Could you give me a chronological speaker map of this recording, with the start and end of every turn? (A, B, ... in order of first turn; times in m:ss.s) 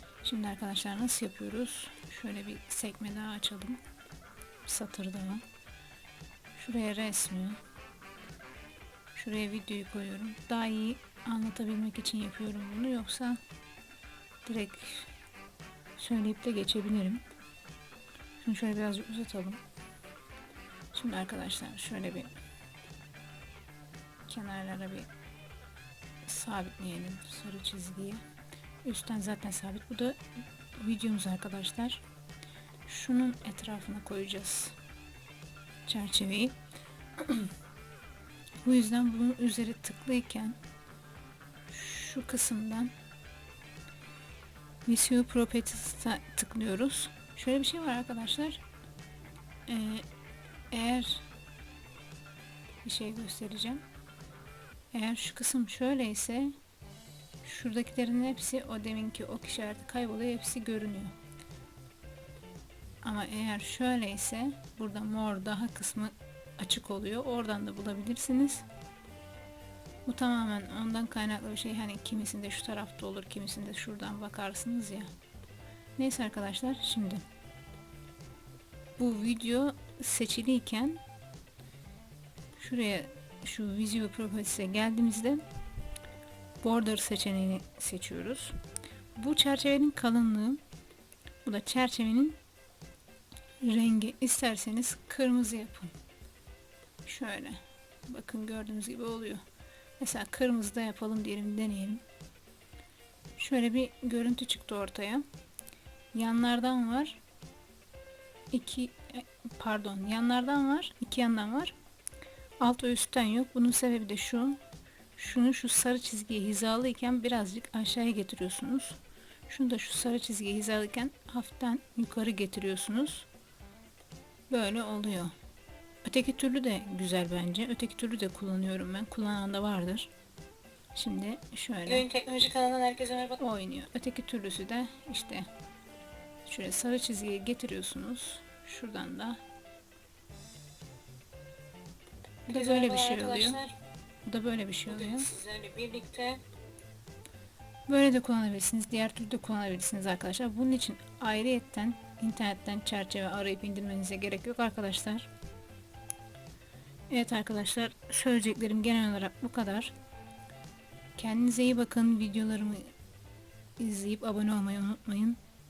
0:00.2-0:03.8 A
0:04.6-0:05.4 A
0:06.6-0:07.6 A
0:09.1-0:13.4 A
0:14.5-0:15.1 A
0:16.0-0:17.2 A
0:18.4-0:19.6 A
0:20.9-0:22.3 A
0:24.3-0:25.1 A
0:26.2-0:28.2 A
0:28.8-0:30.2 A
0:30.8-0:32.0 A
0:32.9-0:34.8 A
0:35.9-0:36.6 A
0:37.2-0:37.5 A
0:38.6-0:40.6 A
0:41.7-0:42.9 A
0:44.9-0:48.6 A
0:49.7-0:50.1 A
0:50.7-0:51.2 A
0:52.8-0:53.8 A
0:54.9-0:56.5 A
0:57.4-1:01.1 A
1:03.0-1:08.6 A
1:10.1-1:15.1 A
1:16.0-1:17.2 A
1:19.0-1:21.0 A
1:22.6-1:25.4 A
1:26.6-1:28.6 A
1:29.2-1:30.6 A
1:31.4-1:32.4 A
1:33.6-1:35.9 A
1:37.0-1:39.4 A
1:40.0-1:42.0 A
1:43.4-1:45.2 A
1:46.1-1:47.2 A
1:48.5-1:51.8 A
1:52.6-1:54.6 A
1:55.2-1:59.0 A
1:59.5-2:03.3 A
2:04.5-2:05.3 A
2:06.0-2:10.1 A
2:11.0-2:12.1 A
2:11.9-2:13.4 B
2:13.4-2:15.5 A
2:16.4-2:19.4 A
2:22.5-2:23.6 A
2:22.5-2:23.7 B
2:24.2-2:25.3 A
2:25.1-2:26.4 B
2:27.9-2:35.3 A
2:37.1-2:39.9 A
2:41.2-2:42.9 A
2:43.8-2:45.4 A